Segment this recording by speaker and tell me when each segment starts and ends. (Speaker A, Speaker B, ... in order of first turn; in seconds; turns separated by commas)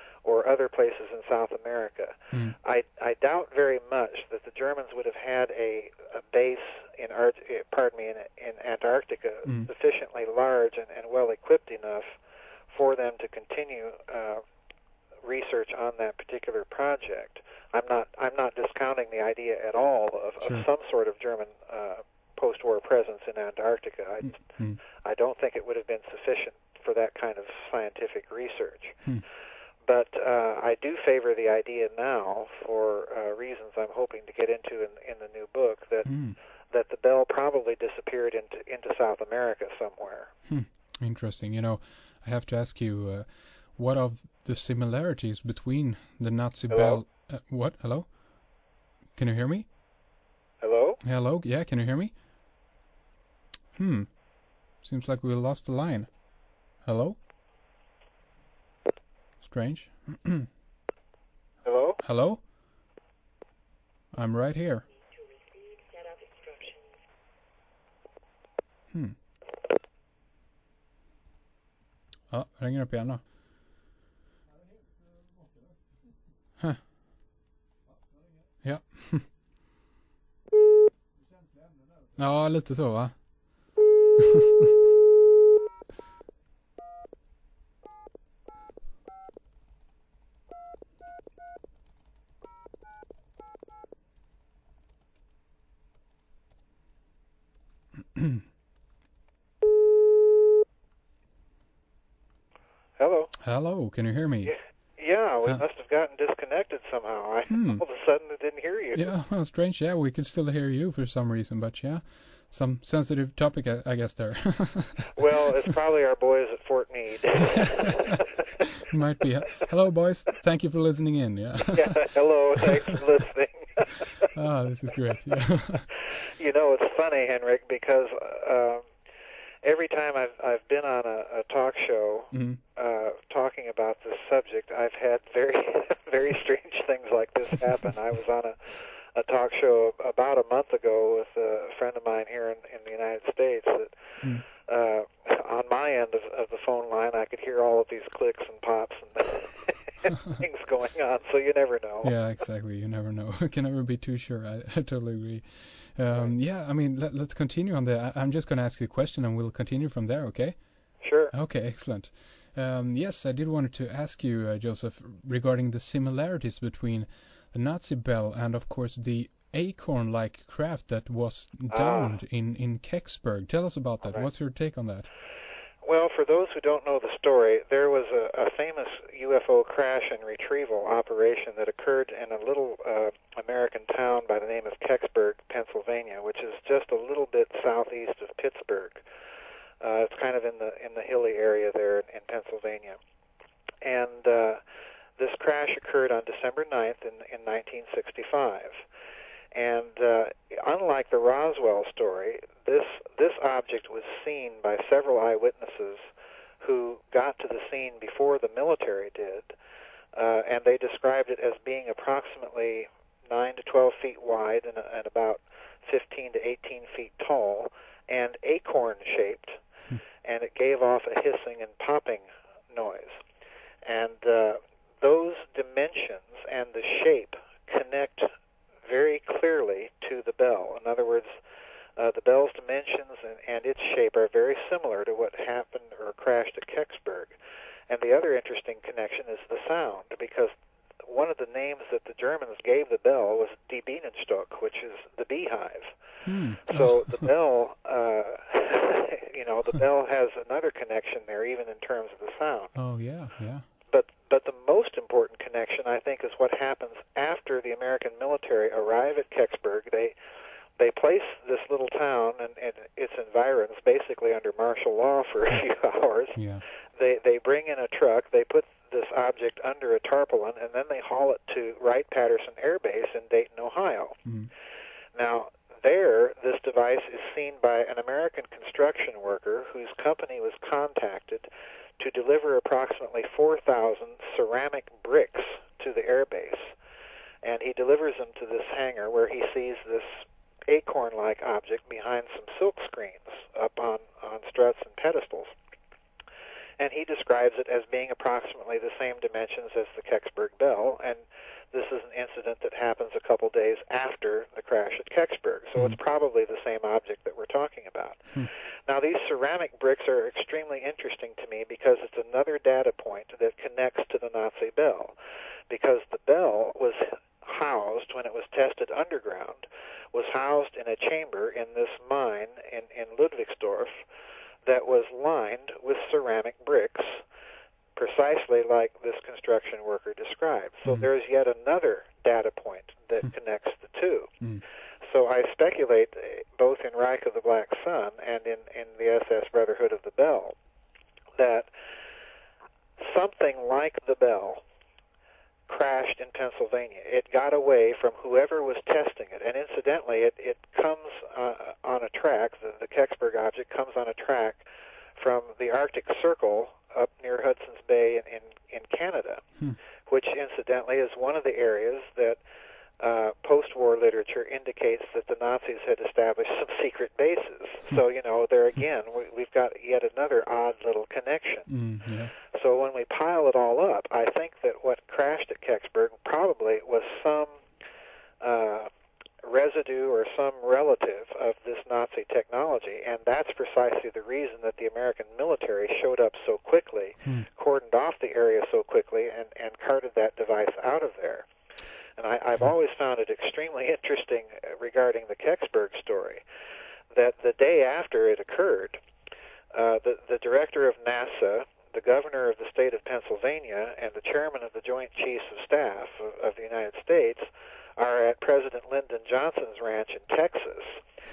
Speaker A: 0.2-12.2, Speaker A: 12.7-14.4, Speaker A: 15.2-29.0, Speaker B: 20.4-20.7, Speaker B: 24.4-24.8, Speaker A: 29.8-36.2, Speaker B: 36.0-36.4, Speaker A: 36.7-40.3, Speaker B: 40.5-48.2, Speaker A: 46.7-47.0, Speaker B: 49.2-49.6, Speaker A: 50.6-51.0, Speaker B: 51.0-52.1, Speaker B: 53.8-54.1, Speaker B: 54.8-56.1, Speaker B: 56.8-57.1, Speaker B: 59.4-60.5, Speaker A: 61.6-62.0, Speaker B: 62.0-62.4, Speaker B: 64.1-64.9, Speaker B: 72.3-73.2, Speaker B: 78.6-79.2, Speaker B: 82.2-83.2, Speaker B: 84.2-84.7, Speaker B: 98.1-98.4, Speaker A: 103.0-103.3, Speaker B: 103.4-104.6, Speaker A: 104.5-109.1, Speaker B: 107.5-107.8, Speaker B: 108.9-115.7, Speaker A: 115.2-118.4, Speaker B: 118.9-123.0, Speaker A: 121.7-124.3, Speaker B: 124.3-125.9, Speaker A: 126.2-128.8, Speaker A: 129.6-143.9, Speaker B: 132.3-132.6, Speaker A: 144.5-152.1, Speaker B: 152.0-175.1, Speaker A: 161.0-161.3, Speaker A: 171.7-172.2, Speaker A: 175.8-189.0, Speaker A: 189.8-193.0, Speaker A: 193.8-194.6, Speaker A: 195.2-198.8, Speaker A: 199.5-206.1, Speaker A: 206.6-209.5, Speaker A: 210.1-219.6, Speaker A: 220.2-223.2, Speaker A: 223.8-228.3, Speaker A: 228.8-231.4, Speaker A: 232.0-237.4, Speaker A: 237.9-240.5, Speaker A: 241.0-245.9, Speaker B: 246.2-247.3, Speaker A: 246.7-252.7, Speaker B: 252.7-253.6, Speaker A: 253.9-260.1, Speaker A: 260.8-266.4, Speaker B: 266.3-266.6, Speaker A: 266.9-274.2, Speaker A: 275.1-286.7, Speaker A: 287.4-295.5, Speaker A: 296.8-308.3, Speaker A: 308.9-315.1, Speaker A: 315.7-324.0, Speaker A: 324.6-327.2, Speaker A: 327.9-334.3, Speaker A: 335.0-340.6, Speaker A: 341.4-341.7, Speaker A: 343.0-344.6, Speaker A: 345.7-354.6, Speaker A: 355.1-359.4, Speaker A: 360.1-362.4, Speaker A: 363.0-371.7, Speaker B: 371.7-372.3, Speaker A: 372.4-377.6, Speaker A: 378.4-378.9, Speaker A: 379.4-391.5, Speaker A: 392.2-396.4, Speaker A: 397.1-399.0, Speaker A: 399.7-411.0